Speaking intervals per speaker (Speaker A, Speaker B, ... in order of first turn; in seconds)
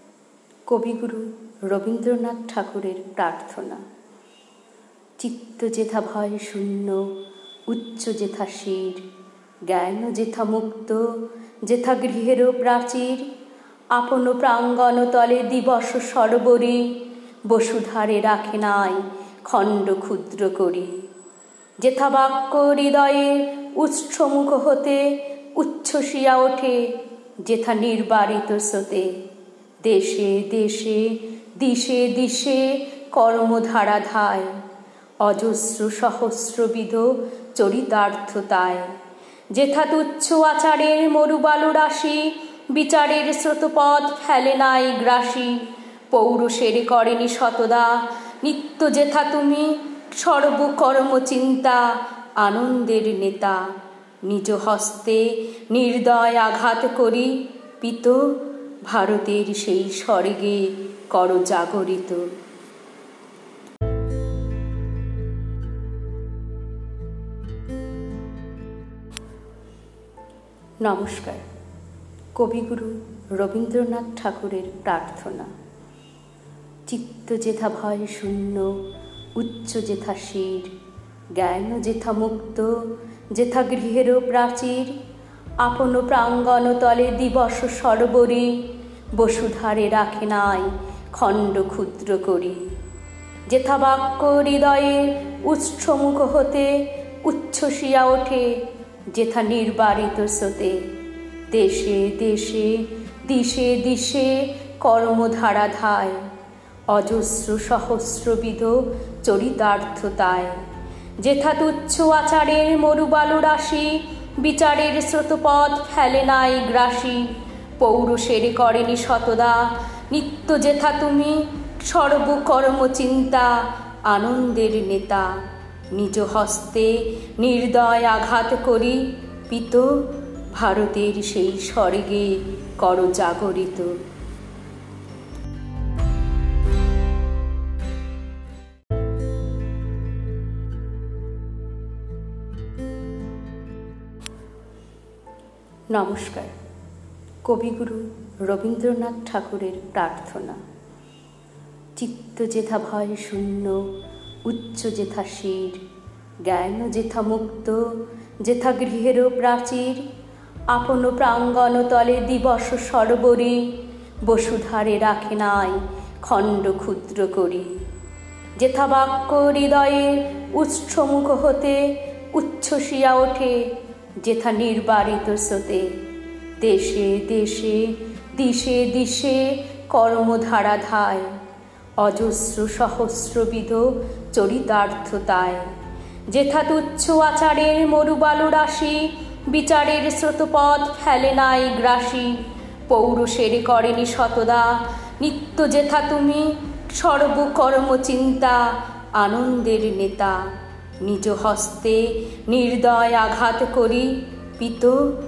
Speaker A: 0.7-3.8, 5.2-7.1, 7.7-9.0, 9.7-11.0, 11.7-13.3, 13.9-16.9, 17.5-21.0, 21.8-26.9, 27.4-29.1, 29.8-34.5, 35.2-38.9, 39.5-53.6, 54.2-58.4, 58.9-62.2, 70.8-71.5, 72.4-75.5, 76.9-78.8, 79.4-80.7, 81.4-82.7, 83.3-85.0, 85.6-88.5, 89.2-92.7, 93.5-98.6, 99.1-100.8, 101.5-106.2, 106.9-110.6, 111.2-125.3, 125.9-133.9, 145.9-146.5, 147.5-150.6, 152.0-153.9, 154.4-155.8, 156.4-157.8, 158.4-160.1, 160.7-163.6, 164.3-167.8, 168.6-173.7, 174.2-175.9, 176.6-181.3, 182.0-185.7, 186.3-192.4, 192.9-200.4, 201.0-205.1